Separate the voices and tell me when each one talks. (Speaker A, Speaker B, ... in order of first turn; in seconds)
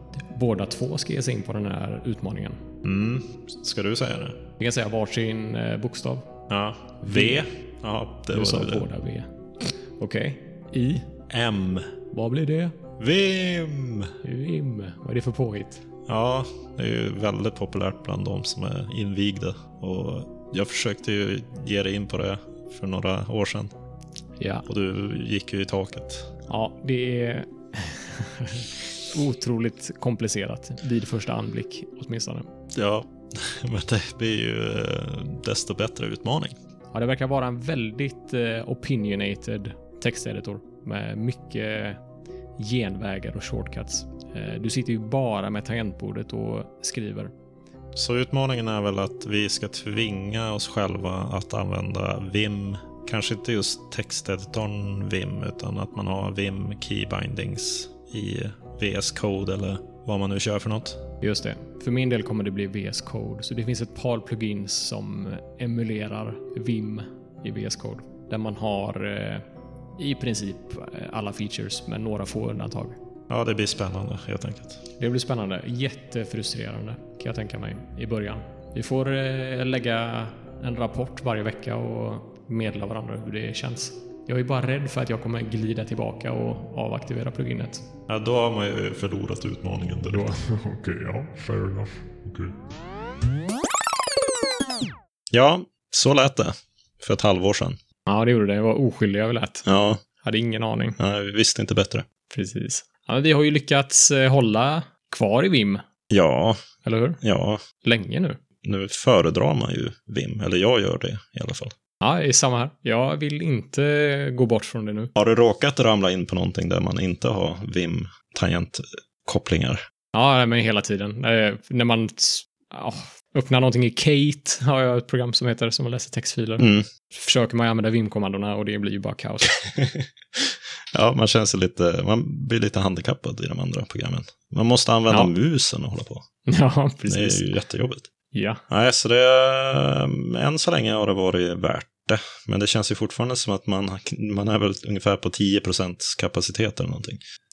Speaker A: 0.2-2.6, 4.6-6.5, 7.0-7.5, 8.3-11.1, 12.1-12.8, 14.2-15.8, 24.4-24.6, 26.5-32.5, 36.9-42.0, 42.6-47.3, 61.2-69.4, 70.0-73.0, 75.0-87.8, 90.0-90.4, 98.1-99.6, 100.2-101.0, 102.3-105.8, 106.8-107.2, 107.8-108.4, 112.0-115.1, 120.1-129.6, 136.4-137.4, 138.3-138.6
Speaker B: 2.8-4.4, 6.5-8.9, 11.3-12.0, 13.0-14.1, 16.1-23.7, 24.6-26.3, 32.7-36.5, 47.9-61.0, 73.3-74.8, 88.1-90.3, 95.3-97.8, 99.6-100.0, 101.0-102.0, 106.1-106.6, 107.2-107.6, 108.6-111.7, 115.2-119.8, 126.6-126.9, 129.7-136.2, 137.1-138.1, 138.7-147.2
Speaker C: 90.4-92.5